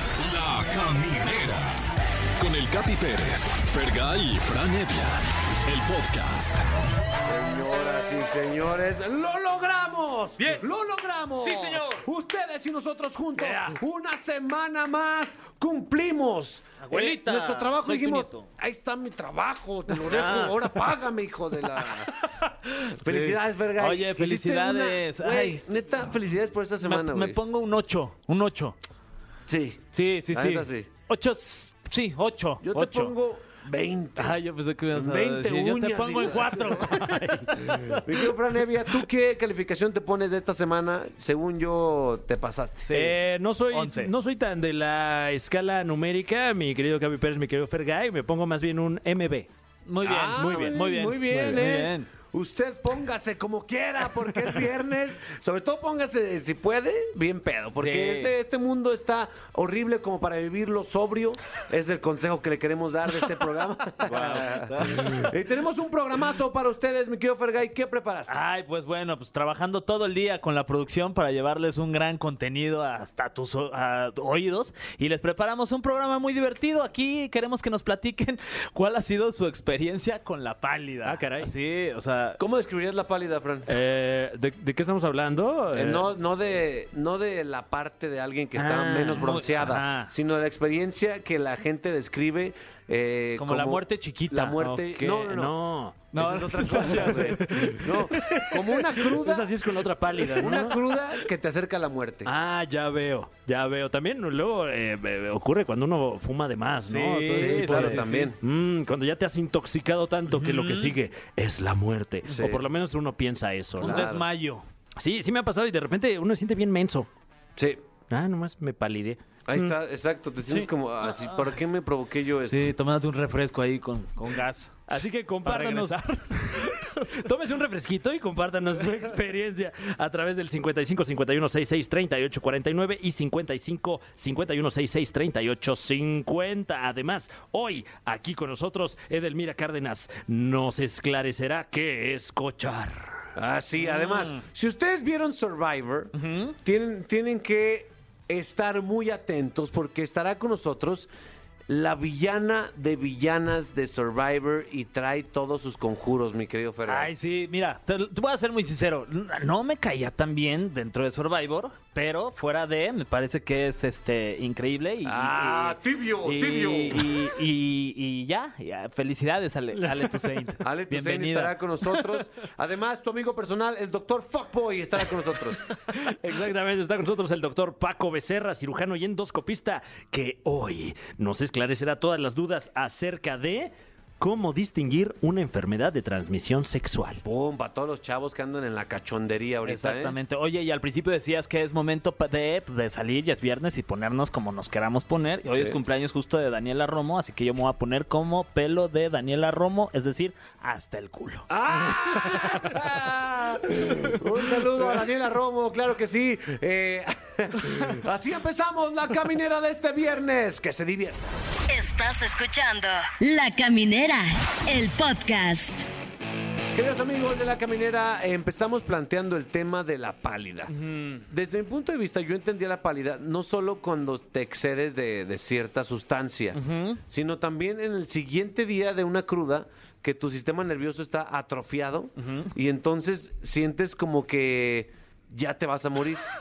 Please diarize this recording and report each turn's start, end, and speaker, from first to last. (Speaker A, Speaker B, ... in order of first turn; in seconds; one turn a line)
Speaker A: 0.2-1.7
Speaker A: 2.4-6.6
Speaker B: 7.2-22.2
Speaker C: 11.4-12.0
Speaker C: 13.4-13.8
Speaker C: 16.8-18.5
Speaker C: 19.9-20.8
Speaker C: 21.8-25.6
Speaker B: 23.0-27.4
Speaker C: 26.8-28.8
Speaker B: 29.5-30.9
Speaker C: 29.9-33.1
Speaker B: 32.6-34.4
Speaker C: 34.2-38.3
Speaker B: 34.9-36.9
Speaker D: 37.0-38.0
Speaker B: 37.7-42.9
Speaker C: 42.9-43.2
Speaker D: 42.9-49.5
Speaker C: 43.7-44.1
Speaker C: 49.9-52.1
Speaker B: 50.0-68.4
Speaker D: 50.2-50.8
Speaker C: 57.8-58.3
Speaker C: 64.1-65.3
Speaker D: 64.1-64.4
Speaker C: 68.3-82.4
Speaker D: 81.0-81.5
Speaker B: 82.4-83.7
Speaker D: 83.7-86.1
Speaker B: 85.7-95.6
Speaker D: 88.6-89.4
Speaker C: 88.7-90.1
Speaker C: 93.4-94.8
Speaker D: 94.6-98.4
Speaker B: 96.1-99.5
Speaker C: 96.1-99.1
Speaker D: 99.0-101.0
Speaker B: 100.3-102.3
Speaker D: 102.3-114.1
Speaker C: 106.9-108.3
Speaker B: 107.3-108.4
Speaker C: 110.3-110.9
Speaker B: 112.3-112.7
Speaker C: 113.8-114.7
Speaker B: 113.8-114.2
Speaker D: 115.0-117.1
Speaker B: 117.6-117.8
Speaker D: 118.1-119.7
Speaker B: 119.5-122.7
Speaker C: 122.5-127.1
Speaker D: 124.9-143.3
Speaker B: 143.4-151.1
Speaker C: 143.8-144.4
Speaker C: 146.2-146.6
Speaker B: 151.7-157.1
Speaker C: 156.9-172.2
Speaker B: 165.0-167.1
Speaker D: 169.8-170.5
Speaker B: 170.6-175.7
Speaker D: 175.8-187.2
Speaker B: 187.2-190.2
Speaker C: 189.6-201.5
Speaker B: 195.5-195.8
Speaker B: 201.5-211.3
Speaker C: 202.3-202.6
Speaker E: 211.7-215.9
Speaker B: 216.8-220.7
Speaker C: 220.8-221.2
Speaker B: 221.3-236.3
Speaker C: 226.6-227.0
Speaker C: 232.2-232.5